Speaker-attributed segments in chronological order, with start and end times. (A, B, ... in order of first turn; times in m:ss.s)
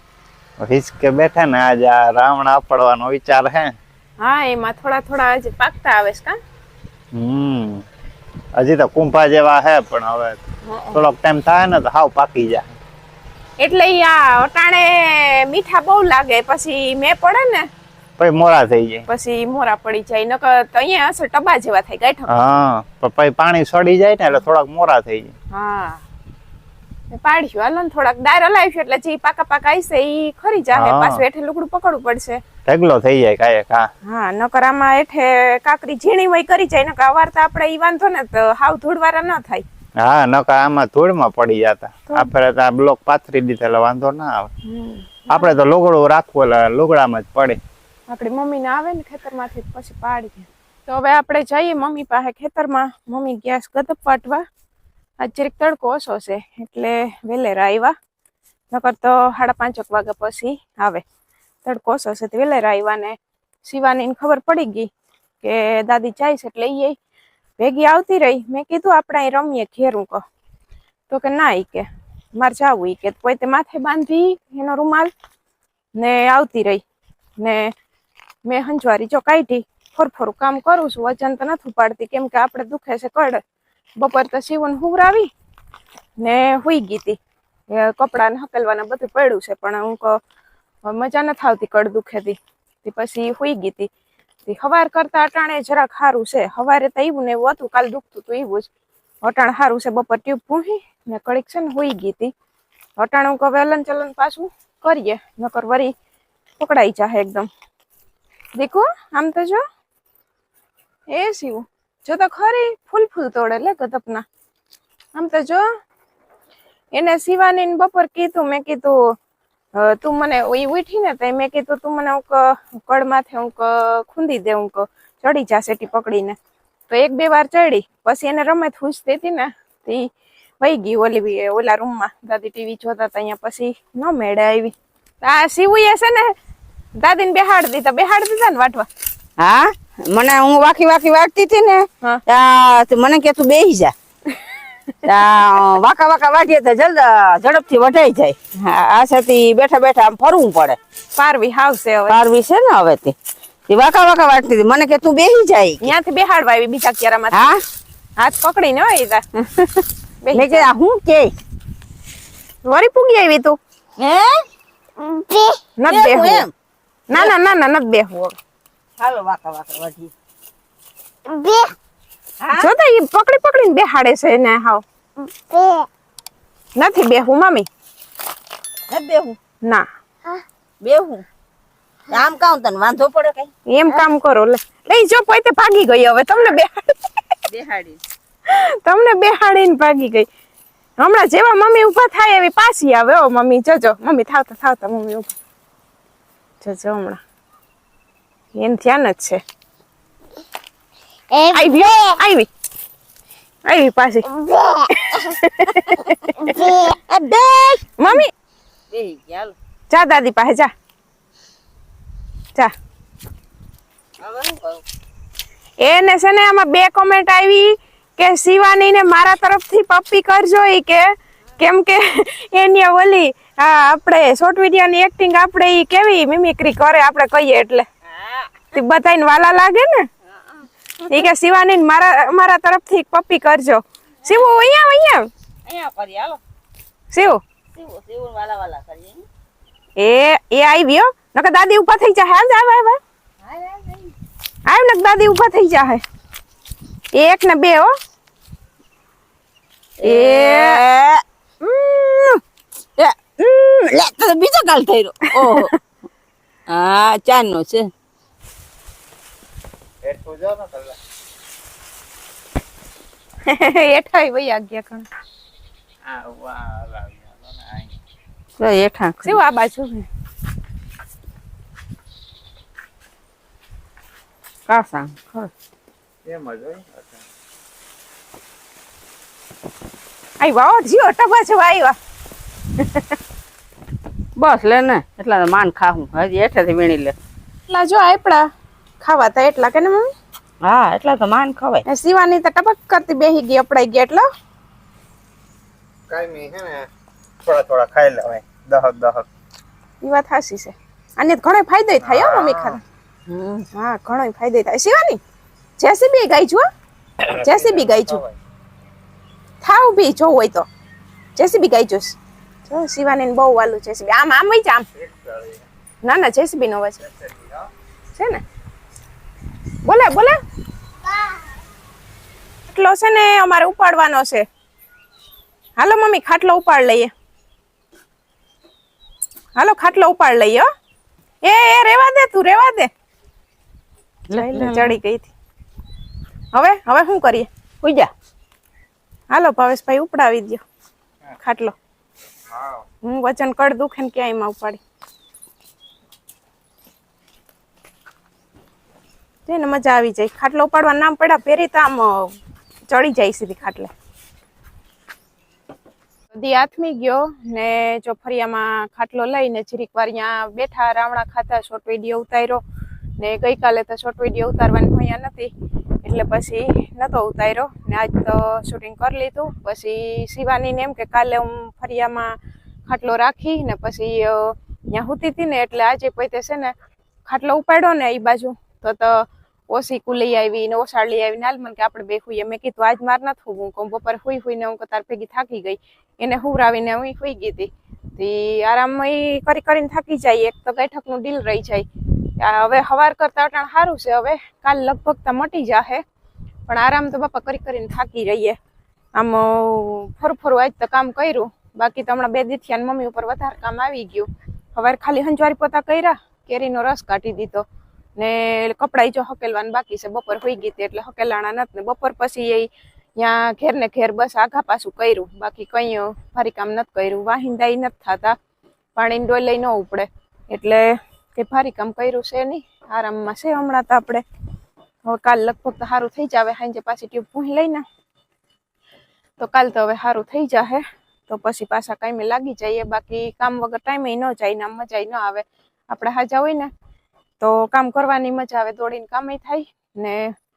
0:00.6-0:03.8 A
0:04.2-0:06.4 B
0:07.1-0:07.8 A
0:08.6-0:10.4 A
0:10.6-0:11.0 B
0:10.9-0:12.7 A
0:13.6-0:17.7 B
0:18.2-0:19.0 A
0:19.1-0:22.3 B
0:22.3-0:25.3 A
0:25.5-0:26.0 B
0:27.1-0:32.4 B
0:30.7-0:31.2 A
0:32.7-0:33.9 A
0:34.0-0:39.6 B
0:40.0-0:44.5 A
0:44.6-0:45.5 B
0:45.3-0:47.6 A
0:48.1-0:54.4 B
0:55.2-0:57.9 B
0:58.7-1:01.0 B
1:01.6-1:04.9 B
1:05.4-1:07.0 B
1:07.6-1:10.2 B
1:11.1-1:15.1 B
1:16.0-1:16.8 B
1:17.4-1:17.7 B
1:18.4-1:23.4 B
1:24.0-1:25.3 B
1:26.2-1:27.2 B
1:27.7-1:30.2 B
1:30.8-1:33.9 B
1:34.4-1:38.7 B
1:39.2-1:42.3 B
1:43.0-1:45.9 B
1:46.6-1:47.5 B
1:48.6-1:49.6 B
1:51.1-1:54.2 B
1:55.1-1:55.6 B
1:56.9-1:59.0 B
1:59.7-2:06.4 B
2:06.9-2:10.1 B
2:10.6-2:16.3 B
2:17.0-2:18.9 B
2:19.4-2:23.9 C
2:25.0-2:30.8 C
2:31.2-2:32.2 B
2:32.1-2:33.1 C
2:33.7-2:35.9 C
2:35.8-2:37.6 B
2:37.3-2:37.6 C
2:38.2-2:39.2 B
2:39.4-2:41.3 C
2:40.2-2:40.7 B
2:42.6-2:43.6 B
2:44.0-2:44.4 C
2:45.0-2:45.6 D
2:45.8-2:46.4 B
2:45.9-2:46.5 C
2:47.1-2:48.4 B
2:49.0-2:50.1 C
2:51.2-2:51.7 D
2:52.4-2:52.7 C
2:52.5-2:54.8 B
2:55.2-2:55.9 D
2:56.8-2:57.7 B
2:58.9-2:59.4 C
3:00.8-3:01.2 C
3:02.1-3:03.5 C
3:03.7-3:07.3 B
3:07.5-3:08.0 C
3:08.5-3:10.3 B
3:11.0-3:15.4 B
3:16.6-3:17.2 B
3:18.6-3:19.4 B
3:21.3-3:21.6 D
3:21.5-3:22.5 B
3:23.6-3:24.4 B
3:24.4-3:24.9 D
3:24.9-3:26.6 B
3:26.5-3:26.9 D
3:26.5-3:27.9 C
3:28.0-3:28.3 B
3:28.9-3:29.5 C
3:29.9-3:30.7 B
3:34.2-3:34.8 C
3:35.8-3:47.8 B
3:48.2-3:48.5 C
3:48.7-3:50.1 B
3:51.1-3:55.3 B
3:55.6-3:56.4 C
3:57.1-3:57.4 B
3:57.7-3:59.2 C
4:00.0-4:03.0 B
4:03.4-4:04.1 C
4:04.6-4:06.0 B
4:07.1-4:07.9 B
4:10.0-4:10.8 B
4:10.0-4:12.3 C
4:13.0-4:15.7 C
4:15.4-4:15.7 B
4:16.7-4:17.9 C
4:20.0-4:21.0 A
4:23.4-4:25.1 B
4:26.0-4:27.9 A
4:28.6-4:29.4 C
4:29.2-4:30.1 B
4:34.7-4:35.3 C
4:36.2-4:37.2 A
4:40.4-4:42.0 B
4:44.4-4:47.1 C
4:47.7-4:48.5 B
4:49.0-4:50.1 B
4:50.6-4:51.8 C
4:51.8-4:54.2 B
4:56.1-4:56.9 A
4:57.4-4:59.3 A
5:00.0-5:02.8 B
5:02.0-5:02.8 A
5:03.3-5:03.6 C
5:03.7-5:05.2 B
5:05.8-5:06.7 B
5:07.2-5:08.2 B
5:07.3-5:08.3 A
5:09.6-5:10.7 B
5:11.4-5:14.9 B
5:15.0-5:15.6 A
5:16.0-5:17.1 B
5:17.2-5:17.6 A
5:18.1-5:18.4 B
5:19.8-5:20.4 B
5:22.7-5:24.5 B
5:25.8-5:27.1 B
5:29.5-5:30.7 B
5:31.4-5:32.9 B
5:34.3-5:34.9 C
5:34.3-5:35.3 B
5:36.5-5:37.5 B
5:37.8-5:38.1 C
5:39.3-5:40.6 B
5:41.4-5:41.7 B
5:43.0-5:44.8 B
5:49.4-5:52.3 B
5:52.9-5:53.9 B
5:56.3-6:02.6 B
6:03.2-6:16.7 B
6:17.2-6:36.0 B
6:36.7-6:38.6 B
6:39.1-6:47.6 B
6:48.2-6:58.4 B
6:59.0-7:04.2 B
7:05.1-7:07.8 B
7:09.4-7:16.7 B
7:17.4-7:20.3 B